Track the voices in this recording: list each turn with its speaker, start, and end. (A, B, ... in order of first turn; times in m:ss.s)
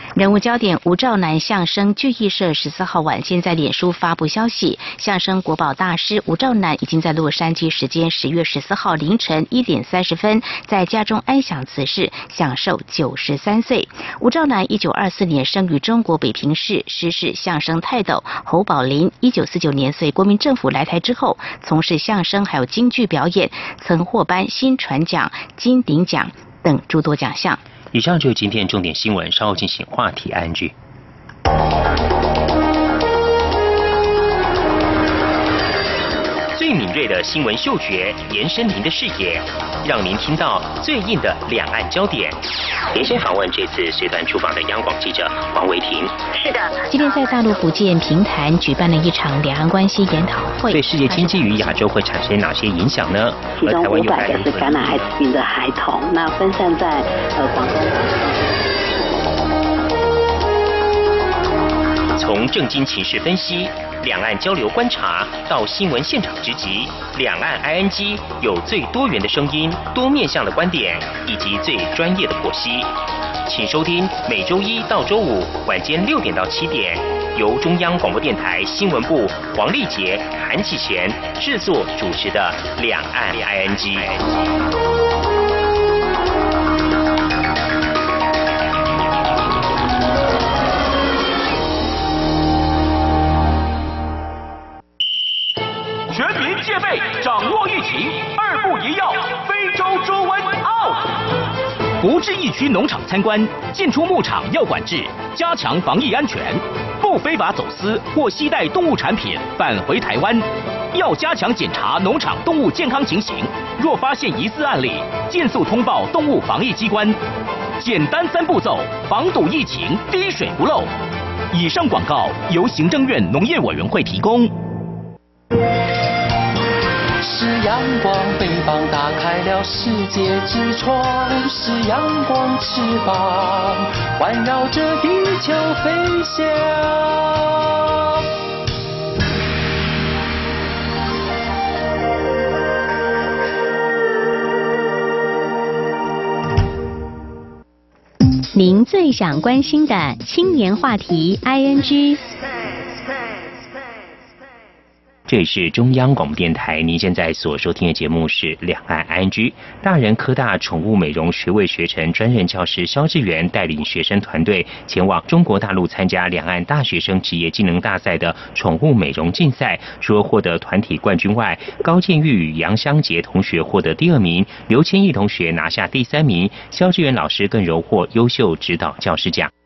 0:00.2-0:27.6 A
0:27.9-0:30.7 B
0:36.5-0:42.4 B
0:42.9-0:46.1 B
0:46.3-0:46.9 C
0:46.9-0:51.6 A
0:50.7-0:54.8 B
0:53.6-0:58.1 C
1:02.1-1:12.9 B
1:13.4-1:24.1 B
1:36.1-1:41.2 D
1:42.0-1:57.2 D
1:57.8-2:00.9 D
2:01.5-2:04.5 D
2:07.2-2:17.6 E
2:28.5-2:32.2 F
2:35.3-2:59.5 B